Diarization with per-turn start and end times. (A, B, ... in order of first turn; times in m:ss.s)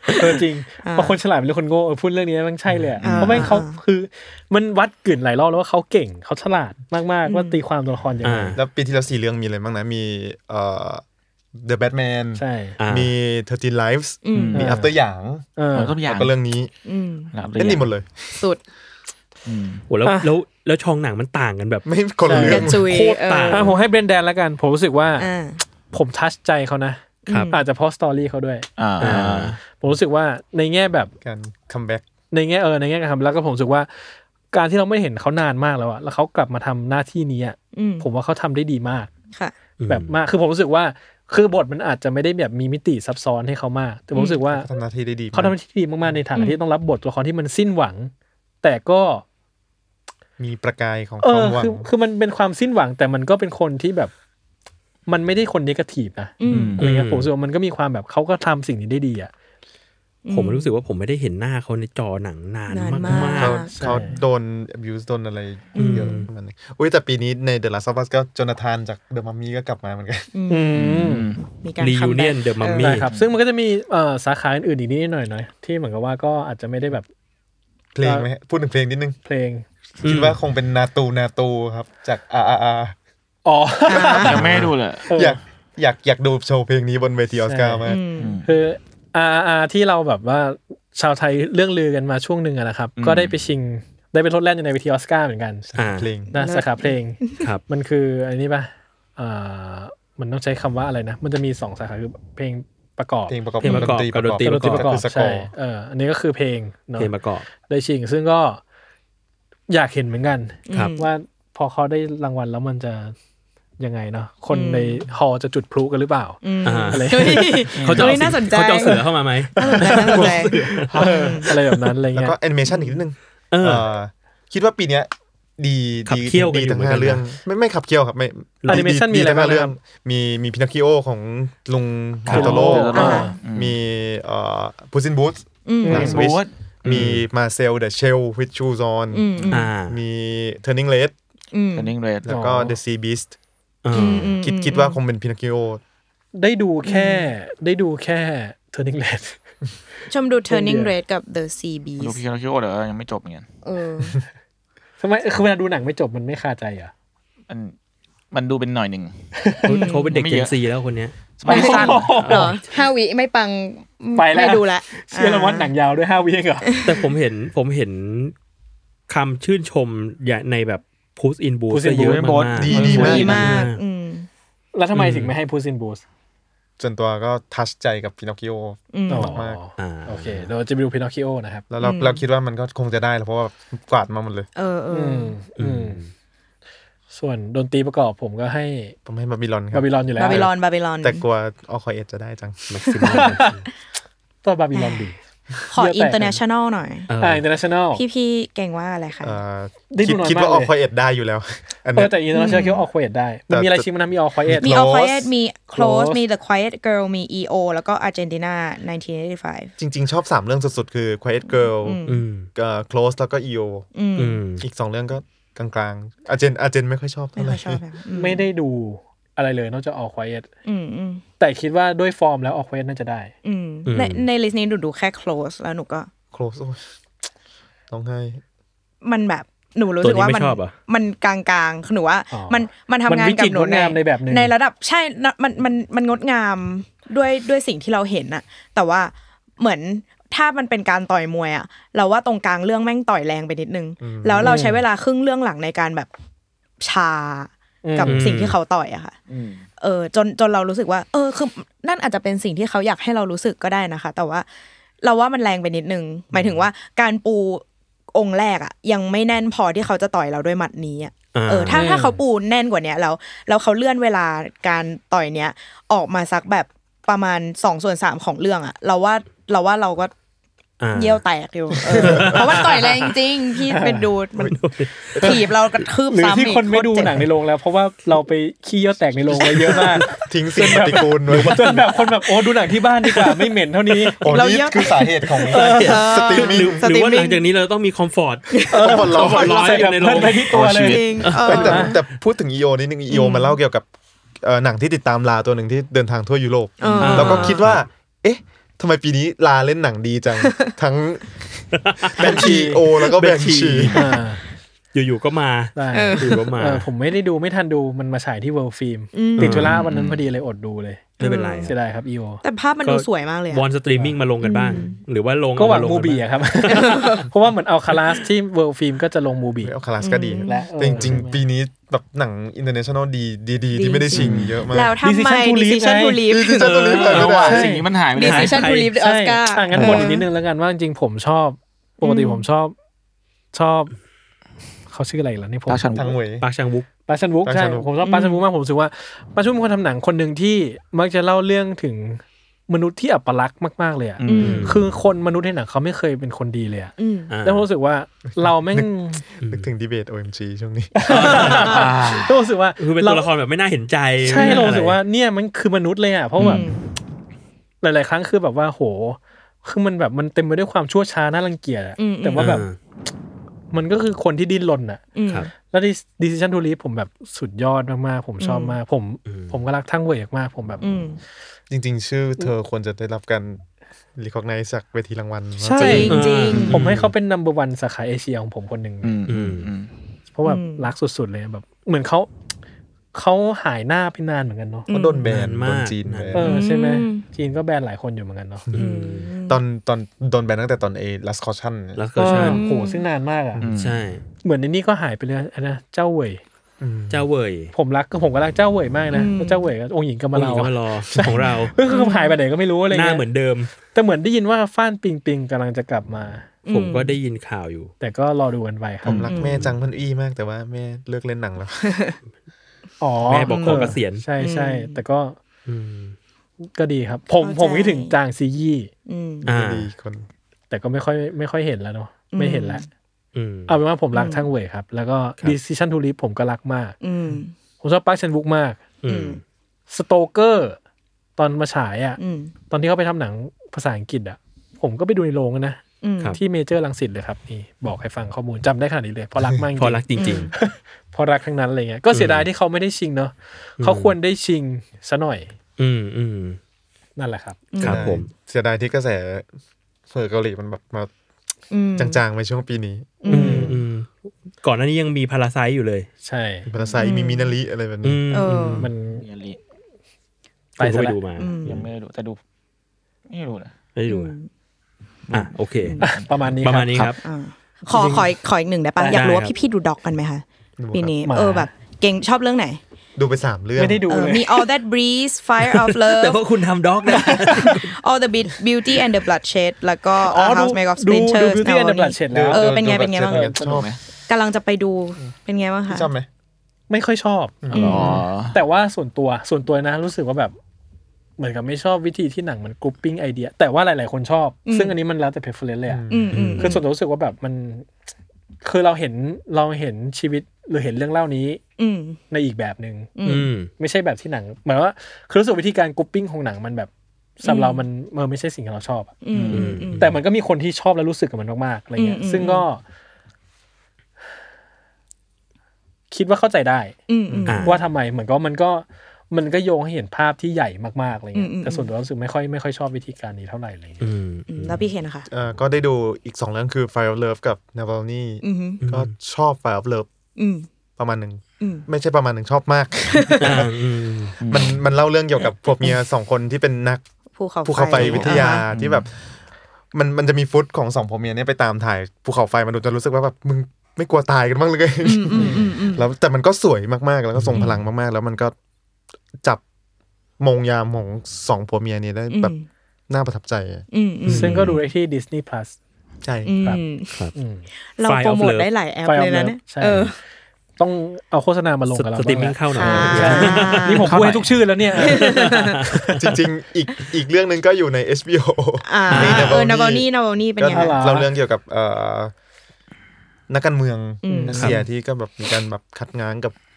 0:00.1-0:08.6 A
0:00.8-0:01.2 B
0:03.0-0:03.4 C
0:03.0-0:03.5 D
0:03.2-0:03.8 B
0:07.3-0:07.6 B
0:08.2-0:08.6 E
0:08.6-0:11.0 D
0:11.6-0:15.5 D
0:12.4-0:12.8 A
0:12.8-0:13.1 E
0:14.2-0:14.6 B
0:14.4-0:14.6 C
0:14.5-0:14.9 A
0:15.6-0:16.0 A
0:15.8-0:16.3 C
0:16.0-0:16.7 D
0:16.8-0:17.3 B
0:17.3-0:17.9 C
0:17.6-0:18.4 D
0:18.4-0:18.6 B
0:19.5-0:19.8 C
0:19.9-0:21.8 E
0:20.0-0:20.3 A
0:21.8-0:22.9 D
0:22.2-0:25.3 A
0:22.3-0:23.8 B
0:23.1-0:23.7 E
0:25.2-0:25.6 B
0:25.9-0:31.1 A
0:27.3-0:27.6 B
0:28.8-0:29.6 C
0:29.0-0:29.6 E
0:31.2-0:32.1 D
0:32.3-0:33.9 A
0:34.5-0:39.1 A
0:37.7-0:38.1 B
0:39.8-0:40.2 E
0:39.9-0:44.7 A
0:44.1-0:44.4 B
0:44.5-0:45.6 D
0:45.3-0:49.2 A
0:50.4-0:51.9 D
0:51.2-0:54.1 A
0:55.1-0:59.3 A
0:56.4-0:56.8 B
0:56.5-0:56.8 C
0:56.8-0:57.3 E
1:00.2-1:00.7 B
1:00.3-1:03.6 E
1:02.7-1:03.8 B
1:03.4-1:10.3 D
1:03.7-1:04.2 A
1:05.8-1:06.2 B
1:05.8-1:06.3 E
1:10.3-1:13.0 B
1:10.5-1:11.3 A
1:10.8-1:11.4 C
1:11.8-1:13.1 E
1:12.8-1:17.1 A
1:13.1-1:13.3 C
1:18.0-1:19.2 D
1:18.0-1:18.3 A
1:19.2-1:19.7 A
1:20.0-1:23.0 D
1:20.0-1:20.4 E
1:23.4-1:25.4 A
1:23.9-1:24.6 B
1:24.2-1:25.3 C
1:25.2-1:28.0 D
1:27.5-1:27.9 A
1:27.9-1:28.4 B
1:28.2-1:28.5 C
1:28.4-1:35.7 A
1:33.0-1:33.4 C
1:35.7-1:36.3 D
1:35.8-1:36.1 E
1:36.3-1:37.5 B
1:36.3-1:43.4 A
1:43.3-1:45.5 D
1:43.6-1:44.9 E
1:44.4-1:47.1 A
1:47.0-1:47.5 E
1:47.7-1:48.6 A
1:49.7-1:53.2 A
1:50.7-1:51.1 B
1:53.8-1:57.8 A
1:54.5-1:55.0 B
1:56.4-1:59.0 B
1:56.6-1:57.1 E
1:57.8-1:58.2 C
1:57.8-2:01.5 E
1:59.6-2:01.5 B
1:59.6-2:02.4 A
2:02.2-2:21.2 D
2:02.7-2:03.0 B
2:03.5-2:03.9 E
2:06.1-2:07.2 E
2:08.7-2:09.8 A
2:12.3-2:12.7 E
2:12.3-2:13.4 A
2:12.3-2:13.8 C
2:12.9-2:13.4 B
2:15.7-2:16.2 B
2:15.8-2:16.2 A
2:15.9-2:16.5 C
2:16.8-2:17.2 E
2:19.1-2:19.7 B
2:19.5-2:20.0 E
2:21.5-2:21.9 B
2:21.7-2:22.2 C
2:22.2-2:23.3 D
2:22.3-2:22.8 A
2:23.8-2:24.4 E
2:23.9-2:25.8 D
2:23.9-2:25.0 B
2:26.3-2:29.4 A
2:26.9-2:27.3 B
2:30.1-2:32.2 B
2:30.5-2:30.9 A
2:32.0-2:33.5 C
2:33.6-2:34.2 B
2:35.0-2:36.9 A
2:37.5-2:37.8 C
2:38.3-2:39.1 C
2:39.4-2:39.8 A
2:39.6-2:41.2 E
2:39.7-2:40.1 B
2:40.1-2:40.5 C
2:41.4-2:42.3 C
2:41.5-2:42.5 A
2:41.5-2:45.7 B
2:41.9-2:42.7 E
2:44.2-2:46.7 A
2:46.6-2:47.0 B
2:46.8-2:48.4 E
2:49.1-2:53.8 E
2:51.7-2:52.3 A
2:52.0-2:53.6 C
2:52.6-2:53.6 D
2:52.7-2:54.3 B
2:54.7-2:56.0 A
2:54.9-2:55.3 E
2:56.8-2:59.6 D
2:58.9-2:59.4 B
2:59.1-3:01.7 A
2:59.8-3:00.5 E
3:01.7-3:04.5 D
3:01.8-3:02.2 B
3:04.6-3:05.4 B
3:04.9-3:06.0 A
3:05.6-3:06.1 E
3:07.1-3:09.0 A
3:09.0-3:10.5 D
3:09.7-3:10.5 A
3:10.2-3:11.2 B
3:11.0-3:12.7 D
3:12.7-3:13.7 E
3:13.0-3:13.4 B
3:14.4-3:15.2 A
3:14.7-3:15.1 B
3:15.7-3:17.1 B
3:15.7-3:16.4 A
3:17.1-3:17.4 E
3:17.2-3:18.0 A
3:17.9-3:19.4 B
3:19.2-3:22.2 D
3:19.9-3:20.7 A
3:22.0-3:24.7 A
3:22.3-3:22.8 B
3:23.5-3:23.9 D
3:24.5-3:25.3 D
3:24.5-3:29.7 B
3:25.7-3:26.2 A
3:29.8-3:32.0 D
3:31.8-3:32.2 B
3:32.1-3:32.5 E
3:32.6-3:33.9 D
3:34.0-3:34.4 B
3:34.2-3:34.6 E
3:34.6-3:37.8 D
3:37.4-3:38.5 B
3:38.2-3:40.5 A
3:40.6-3:41.2 B
3:41.4-3:43.3 A
3:43.4-3:46.1 B
3:43.9-3:44.2 E
3:46.3-3:46.8 D
3:47.9-3:48.4 D
3:49.0-4:06.1 B
3:50.0-3:50.7 E
3:52.3-3:54.5 A
4:04.0-4:04.6 D
4:04.4-4:04.8 A
4:06.8-4:09.2 B
4:07.8-4:08.3 A
4:08.0-4:08.6 E
4:09.3-4:09.7 C
4:09.8-4:14.5 B
4:15.0-4:30.1 B
4:21.3-4:21.9 E
4:21.7-4:22.2 A
4:30.8-4:31.2 E
4:30.9-4:37.2 B
4:31.8-4:33.2 E
4:31.9-4:32.3 D
4:33.7-4:34.1 A
4:34.4-4:35.5 E
4:36.1-4:44.2 A
4:39.3-4:40.8 E
4:40.1-4:41.8 D
4:41.3-4:42.0 E
4:43.1-4:44.2 E
4:44.2-4:46.8 D
4:44.3-4:47.4 B
4:45.5-4:50.6 E
4:45.5-4:46.0 A
4:48.6-4:49.6 B
4:48.7-4:52.0 A
4:48.8-4:49.5 D
4:49.4-4:51.3 C
4:50.8-4:52.0 B
4:51.2-4:51.8 E
4:51.4-4:53.9 D
4:53.1-4:53.6 B
4:54.4-5:04.0 D
4:56.8-4:57.6 B
4:57.0-4:57.5 A
4:57.0-4:57.9 E
5:00.4-5:00.7 B
5:01.8-5:02.4 E
5:02.2-5:02.8 A
5:03.0-5:04.1 E
5:03.9-5:04.4 A
5:04.9-5:06.9 E
5:05.8-5:12.4 A
5:05.9-5:06.5 B
5:09.1-5:09.8 B
5:09.4-5:09.8 E
5:09.7-5:10.2 C
5:11.2-5:11.7 E
5:11.2-5:11.7 B
5:12.4-5:13.6 B
5:12.8-5:16.3 E
5:14.4-5:15.0 B
5:15.6-5:19.7 A
5:16.7-5:17.3 B
5:19.6-5:25.0 D
5:20.0-5:20.7 B
5:20.5-5:21.4 A
5:23.7-5:27.1 B
5:24.2-5:24.6 C
5:25.0-5:26.2 A
5:26.3-5:27.7 D
5:26.6-5:27.4 E
5:27.0-5:28.7 C
5:27.3-5:27.9 A
5:28.1-5:30.2 B
5:28.2-5:28.9 E
5:29.0-5:32.8 A
5:29.7-5:30.2 C
5:32.0-5:32.5 B
5:33.5-5:33.9 A
5:34.9-5:35.8 A
5:35.7-5:36.2 C
5:36.0-5:36.5 D
5:36.4-5:36.9 E
5:37.1-5:49.2 A
5:37.4-5:37.9 D
5:38.0-5:38.4 B
5:44.2-5:44.7 C
5:44.3-5:44.7 B
5:44.4-5:44.8 E
5:47.0-5:47.3 B
5:47.3-5:47.7 E
5:48.3-5:51.8 D
5:49.4-5:49.7 E
5:51.0-5:53.3 A
5:51.1-5:55.0 E
5:51.7-5:52.0 B
5:52.0-5:52.2 C
5:54.2-5:56.7 A
5:54.3-5:54.7 B
5:56.4-5:56.7 E
5:56.4-5:56.8 B
5:57.8-6:02.7 A
6:02.0-6:02.6 B
6:02.4-6:02.8 E
6:03.7-6:05.0 A
6:05.2-6:05.5 B
6:05.7-6:10.8 A
6:08.4-6:08.8 B
6:09.3-6:09.5 E
6:10.8-6:11.2 B
6:11.7-6:13.6 D
6:14.2-6:16.2 D
6:15.6-6:19.1 A
6:15.8-6:16.8 B
6:16.1-6:17.1 E
6:16.5-6:16.8 C
6:19.0-6:19.9 C
6:19.3-6:19.7 E
6:20.3-6:22.3 A
6:20.4-6:20.9 B
6:23.1-6:24.9 A
6:24.9-6:25.3 B
6:24.9-6:26.5 D
6:25.3-6:26.4 E
6:26.3-6:28.7 A
6:26.4-6:27.2 B
6:28.7-6:32.0 D
6:28.7-6:29.3 E
6:28.8-6:29.6 B
6:32.0-6:32.6 E
6:32.2-6:33.6 A
6:32.2-6:33.0 B
6:33.6-6:34.0 C
6:33.6-6:34.2 E
6:34.4-6:36.4 A
6:36.8-6:37.2 D
6:37.1-6:37.7 E
6:37.7-6:43.2 A
6:39.1-6:39.7 B
6:40.3-6:41.8 E
6:41.9-6:42.4 B
6:42.9-6:43.7 E
6:43.9-6:46.5 A
6:46.7-6:47.2 B
6:46.7-6:47.9 E
6:48.0-6:49.3 A
6:49.0-6:51.9 D
6:49.3-6:49.6 B
6:49.4-6:49.8 E
6:51.8-6:52.2 B
6:53.0-6:55.4 A
6:53.3-6:54.2 E
6:53.5-6:55.0 B
6:55.7-6:56.2 E
6:56.7-6:58.9 A
6:57.4-6:58.2 B
6:59.1-6:59.5 B
6:59.4-7:00.3 D
6:59.4-6:59.9 E
7:00.7-7:02.9 A
7:02.3-7:02.9 B
7:03.4-7:03.8 E
7:03.7-7:07.0 A
7:04.1-7:04.5 B
7:07.0-7:07.5 B
7:07.8-7:08.8 A
7:09.0-7:09.4 E
7:09.1-7:09.4 B
7:09.9-7:10.8 A
7:11.4-7:12.2 A
7:12.2-7:12.5 B
7:12.7-7:15.8 A
7:16.0-7:16.4 B
7:16.4-7:25.5 A
7:19.4-7:19.6 D
7:19.8-7:20.5 E
7:20.2-7:20.5 B
7:22.1-7:22.5 E
7:23.8-7:24.2 E
7:25.8-7:26.6 E
7:27.2-7:27.7 A
7:27.7-7:28.2 B
7:27.8-7:28.3 E
7:27.8-7:29.5 D
7:30.1-7:31.1 D
7:31.7-7:32.2 B
7:32.0-7:33.2 D
7:33.2-7:33.8 B
7:33.3-7:33.8 A
7:33.3-7:36.1 E
7:36.2-7:36.7 A
7:36.7-7:38.2 D
7:37.0-7:37.5 B
7:38.0-7:38.9 E
7:38.3-7:38.9 B
7:38.7-7:39.2 A
7:39.1-7:39.6 C
7:40.8-7:41.2 A
7:40.8-7:41.5 E
7:41.4-7:41.9 B
7:41.6-7:42.4 C
7:43.3-7:43.7 C
7:44.0-7:44.4 E
7:44.1-7:44.5 B
7:45.3-7:46.4 C
7:45.3-7:46.0 E
7:46.0-7:47.1 A
7:46.6-7:47.2 E
7:47.2-7:52.8 B
7:47.9-7:48.3 A
7:49.1-7:49.6 E
7:50.8-7:51.2 D
7:51.2-7:51.7 A
7:53.2-7:54.1 D
7:53.8-7:54.7 A
7:54.1-7:56.4 B
7:55.6-7:57.9 E
7:57.0-8:03.5 B
7:57.5-7:57.8 A
8:00.2-8:03.9 A
8:02.3-8:03.9 D
8:03.6-8:04.0 C
8:04.3-8:06.1 B
8:05.9-8:06.3 D
8:06.9-8:10.5 A
8:07.6-8:08.1 D
8:07.7-8:08.6 C
8:07.7-8:08.2 B
8:11.4-8:16.1 A
8:14.7-8:15.0 B
8:15.9-8:16.6 D
8:16.1-8:16.8 B
8:16.3-8:16.6 E
8:16.6-8:17.9 A
8:18.6-8:21.6 A
8:21.8-8:22.2 B
8:22.3-8:23.2 A
8:23.2-8:23.5 B
8:23.2-8:23.7 E
8:23.7-8:32.8 A
8:27.4-8:27.8 B
8:29.2-8:30.1 B
8:29.3-8:29.8 C
8:29.5-8:30.1 E
8:32.0-8:32.6 B
8:36.1-8:44.1 A
8:37.1-8:37.8 B
8:37.5-8:37.8 E
8:41.3-8:41.9 B
8:44.0-8:44.8 E
8:44.5-8:45.3 B
8:45.3-8:50.1 D
8:48.4-8:48.8 B
8:48.8-8:49.1 E
8:50.4-8:50.7 B
8:51.0-8:53.8 D
8:51.6-8:51.9 B
8:53.1-8:53.6 B
8:53.4-8:54.4 E
8:54.4-8:54.8 C
8:54.5-8:57.0 D
8:57.4-8:58.6 B
8:57.6-8:59.1 D
8:57.9-8:59.0 C
8:59.9-9:08.5 D
9:05.0-9:06.0 B
9:07.4-9:07.7 E
9:10.4-9:12.6 D
9:12.3-9:12.6 B
9:13.1-9:13.8 D
9:13.9-9:14.9 B
9:14.3-9:14.8 E
9:14.3-9:15.8 A
9:16.2-9:16.6 D
9:16.4-9:17.2 B
9:17.4-9:17.7 A
9:18.0-9:20.2 B
9:18.1-9:18.7 E
9:19.0-9:20.1 A
9:20.8-9:26.2 A
9:21.9-9:24.1 E
9:22.8-9:24.1 B
9:22.8-9:24.6 C
9:25.0-9:25.9 B
9:25.1-9:25.8 E
9:26.1-9:32.3 D
9:28.8-9:30.9 B
9:29.1-9:29.6 E
9:30.7-9:31.3 A
9:33.5-9:36.6 D
9:34.2-9:34.6 B
9:34.3-9:34.8 A